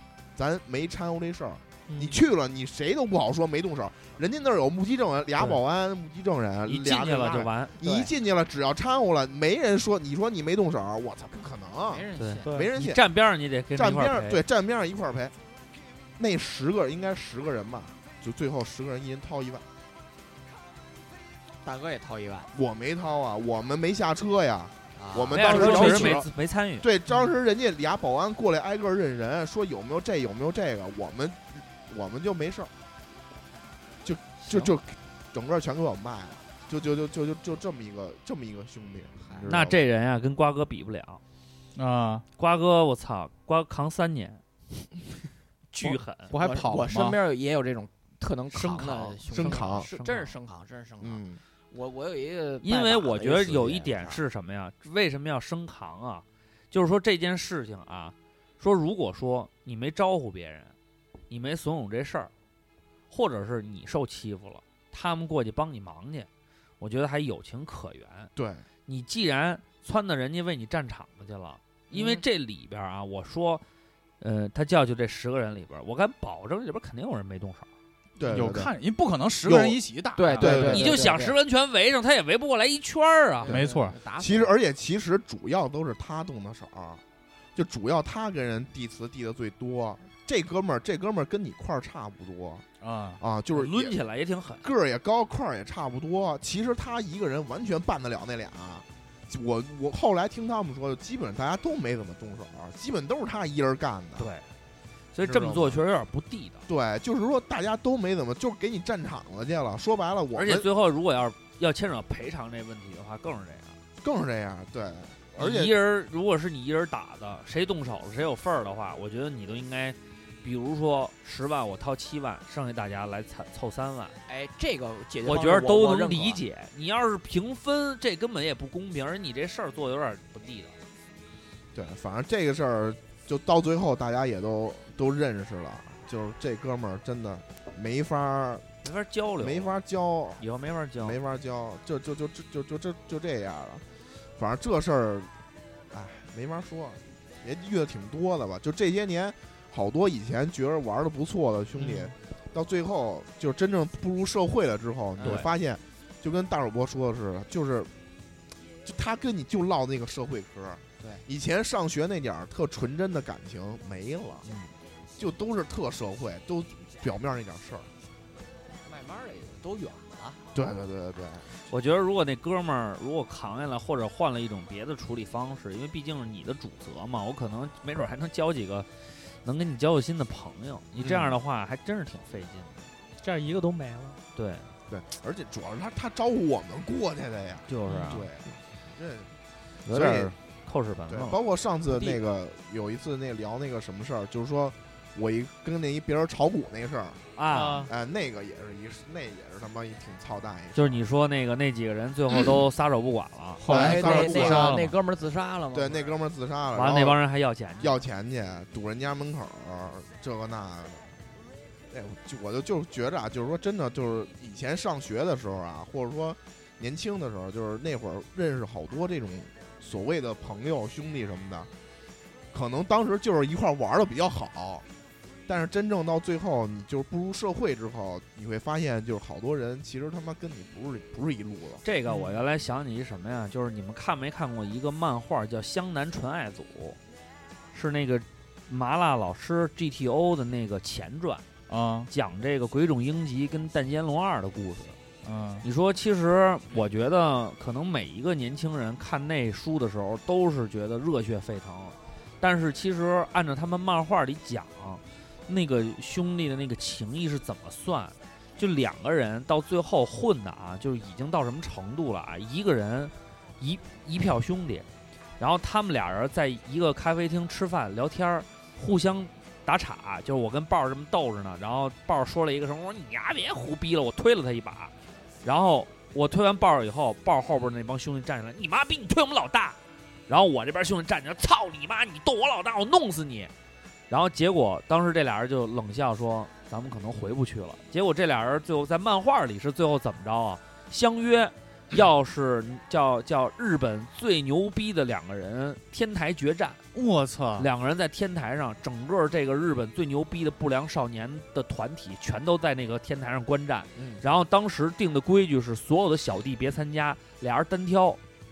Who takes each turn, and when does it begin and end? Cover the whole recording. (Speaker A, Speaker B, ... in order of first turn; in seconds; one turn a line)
Speaker A: 0.3-13.0
Speaker B: 1.9-2.2
Speaker C: 6.7-8.1
Speaker D: 11.8-12.5
Speaker C: 12.2-14.4
Speaker B: 12.4-12.7
Speaker A: 13.8-15.3
Speaker A: 16.2-19.6
Speaker D: 21.6-22.5
Speaker A: 22.5-26.3
Speaker D: 24.9-26.2
Speaker C: 25.3-26.9
Speaker A: 26.8-32.7
Speaker A: 34.0-39.8
Speaker D: 39.2-39.5
Speaker C: 39.5-41.2
Speaker E: 41.8-42.2
Speaker C: 42.4-44.4
Speaker C: 45.7-46.3
Speaker E: 45.8-47.2
Speaker D: 46.3-54.2
Speaker C: 48.5-50.4
Speaker A: 49.3-49.9
Speaker A: 51.0-51.4
Speaker C: 52.6-60.7
Speaker C: 61.3-62.3
Speaker C: 63.1-66.3
Speaker C: 66.8-68.3
Speaker A: 68.3-68.6
Speaker C: 68.9-73.6
Speaker D: 71.9-72.2
Speaker C: 74.2-77.7
Speaker A: 78.2-78.7
Speaker E: 78.3-80.8
Speaker A: 79.4-79.8
Speaker D: 80.2-81.4
Speaker A: 80.4-81.1
Speaker C: 80.5-83.6
Speaker D: 83.4-84.5
Speaker E: 83.5-84.0
Speaker A: 83.5-87.0
Speaker A: 87.5-92.7
Speaker E: 92.8-93.2
Speaker A: 93.2-94.0
Speaker C: 93.5-94.7
Speaker A: 94.6-104.3
Speaker C: 104.2-104.5
Speaker C: 105.1-106.7
Speaker A: 105.2-105.8
Speaker A: 106.7-110.7
Speaker C: 110.3-113.8
Speaker A: 114.0-115.7
Speaker C: 115.4-124.2
Speaker D: 124.3-126.4
Speaker C: 125.2-130.7
Speaker A: 131.7-138.7
Speaker C: 138.8-139.7
Speaker A: 139.4-140.4
Speaker C: 140.4-141.2
Speaker A: 141.0-143.8
Speaker A: 144.3-145.3
Speaker A: 145.9-157.9
Speaker D: 155.2-155.5
Speaker C: 155.2-155.5
Speaker A: 158.8-164.4
Speaker D: 161.0-161.2
Speaker A: 165.2-167.9
Speaker D: 168.8-170.4
Speaker A: 170.5-171.5
Speaker C: 171.7-182.8
Speaker A: 181.0-181.4
Speaker B: 183.2-184.2
Speaker C: 184.3-184.7
Speaker A: 184.9-189.3
Speaker C: 187.7-188.3
Speaker B: 187.8-188.2
Speaker C: 189.8-191.4
Speaker A: 189.9-190.3
Speaker A: 191.1-197.2
Speaker D: 191.9-192.2
Speaker C: 197.3-197.9
Speaker B: 197.5-197.9
Speaker A: 197.9-201.0
Speaker C: 200.7-203.9
Speaker E: 203.6-204.9
Speaker D: 203.6-206.2
Speaker A: 203.7-204.8
Speaker A: 205.7-207.2
Speaker C: 206.7-208.0
Speaker A: 207.8-211.1
Speaker A: 211.9-221.7
Speaker A: 222.5-224.8
Speaker A: 225.5-231.8
Speaker C: 231.8-237.0
Speaker C: 237.7-241.4
Speaker E: 241.7-242.1
Speaker C: 242.1-245.0
Speaker E: 245.2-245.7
Speaker C: 245.6-264.9
Speaker C: 265.4-274.9
Speaker C: 275.4-279.8
Speaker C: 280.3-283.5
Speaker C: 284.1-296.8
Speaker E: 296.9-297.7
Speaker C: 297.6-308.2
Speaker A: 303.9-304.2